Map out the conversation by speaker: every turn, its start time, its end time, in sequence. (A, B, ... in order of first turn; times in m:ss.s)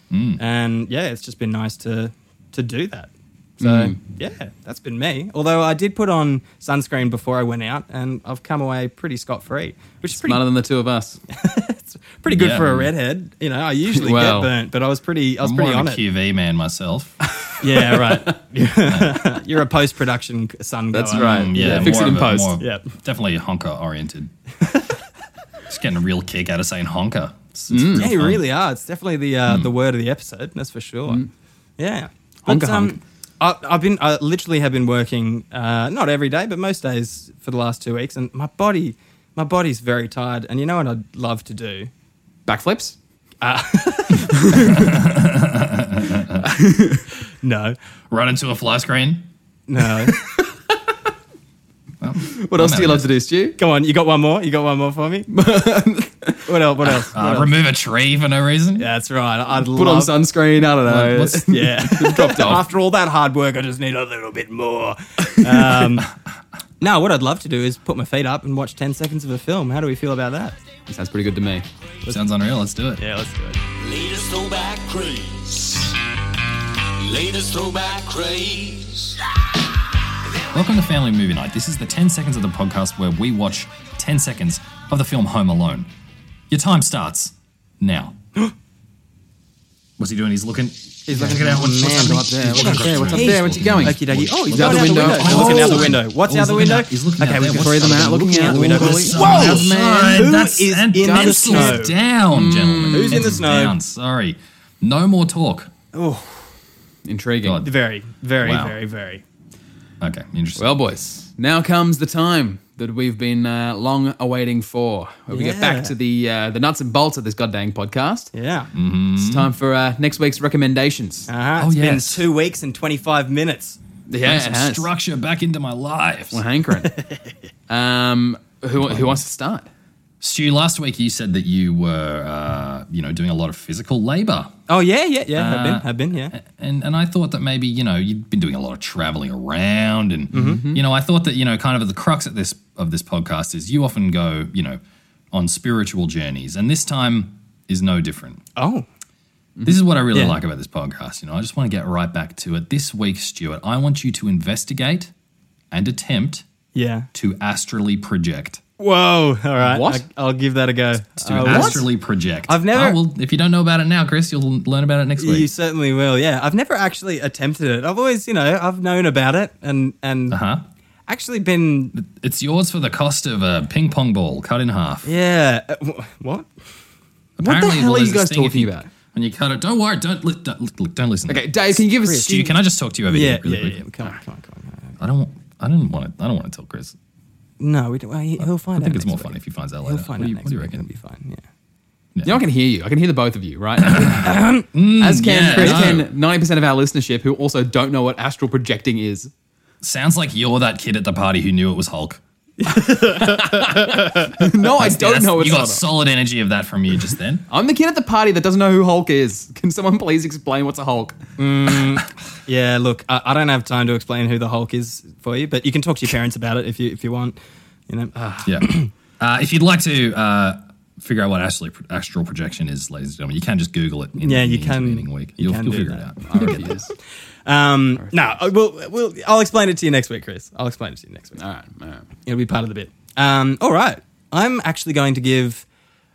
0:00.1-0:00.4 A
0:00.4-0:10.4 B
0:03.6-0:04.0 C
0:10.1-0:11.2 C
0:11.3-0:16.0 B
0:12.3-0:12.9 A
0:13.9-0:14.5 C
0:15.4-0:17.2 A
0:17.3-0:18.3 C
0:17.6-0:22.9 B
0:18.8-0:19.2 A
0:20.9-0:22.6 C
0:21.1-0:24.3 A
0:24.6-0:24.9 B
0:25.7-0:28.4 A
0:27.7-0:28.1 C
0:27.9-0:31.2 B
0:31.8-0:41.9 B
0:32.5-0:33.0 C
0:42.5-0:43.0 C
0:43.4-0:44.8 B
0:44.3-0:44.9 C
0:44.5-0:46.4 A
0:46.4-0:47.0 C
0:47.4-0:47.8 B
0:48.1-0:49.3 A
0:49.7-0:50.2 B
0:52.0-0:53.1 A
0:52.3-0:53.6 C
0:53.6-0:55.3 B
0:55.3-0:56.4 C
0:56.4-0:57.5 B
0:57.1-0:58.9 A
0:58.8-1:00.1 B
0:59.7-1:02.6 C
1:00.8-1:01.7 A
1:01.5-1:06.1 B
1:05.4-1:05.9 C
1:06.8-1:10.6 B
1:10.9-1:11.7 C
1:12.1-1:13.0 A
1:13.0-1:13.6 B
1:13.8-1:15.9 D
1:16.8-1:19.2 D
1:20.5-1:25.9 A
1:26.5-1:28.1 A
1:30.0-1:45.7 A
1:31.1-1:41.9 B
1:31.1-1:36.0 C
1:37.5-1:40.3 C
1:41.0-1:43.4 C
1:42.9-1:43.8 B
1:45.9-1:46.5 B
1:47.0-1:47.6 C
1:47.4-1:47.7 A
1:47.6-1:49.2 B
1:48.4-1:48.8 A
1:50.0-1:50.8 A
1:50.6-1:58.3 C
1:55.3-1:55.9 B
1:58.3-1:58.7 B
1:58.7-1:59.5 A
1:59.2-2:01.3 C
2:01.3-2:03.8 B
2:01.6-2:02.2 A
2:04.1-2:04.9 C
2:04.2-2:06.4 A
2:06.3-2:06.9 C
2:06.8-2:07.2 B
2:07.7-2:09.7 C
2:08.9-2:09.2 A
2:10.2-2:14.5 A
2:14.7-2:16.3 B
2:15.3-2:24.8 A
2:20.3-2:20.6 B
2:20.3-2:20.8 C
2:25.3-2:28.4 A
2:28.6-2:28.8 B
2:29.6-2:35.1 A
2:35.7-2:36.4 A
2:36.7-2:37.1 B
2:37.1-2:38.6 A
2:38.8-2:41.9 B
2:39.6-2:40.0 C
2:41.2-2:45.5 A
2:41.4-2:41.8 C
2:42.5-2:43.0 B
2:45.2-2:50.4 B
2:50.3-2:50.6 A
2:51.1-2:51.9 B
2:51.9-2:55.1 A
2:55.0-2:56.5 B
2:57.4-3:03.8 A
2:57.4-2:58.9 C
3:01.3-3:02.5 C
3:03.1-3:04.9 B
3:05.0-3:07.0 A
3:07.6-3:11.4 B
3:08.4-3:10.8 A
3:12.1-3:12.4 A
3:12.2-3:14.4 C
3:13.8-3:14.2 A
3:14.1-3:14.7 B
3:14.7-3:16.1 A
3:15.0-3:19.3 C
3:15.4-3:16.0 B
3:19.8-3:22.2 A
3:22.6-3:24.5 B
3:23.1-3:25.8 C
3:24.7-3:27.4 A
3:27.5-3:31.2 C
3:31.4-3:37.4 B
3:37.9-3:38.9 B
3:38.4-3:46.7 A
3:44.2-3:46.9 B
3:46.2-3:46.9 C
3:47.4-3:51.4 B
3:51.4-3:52.1 C
3:52.2-3:55.6 B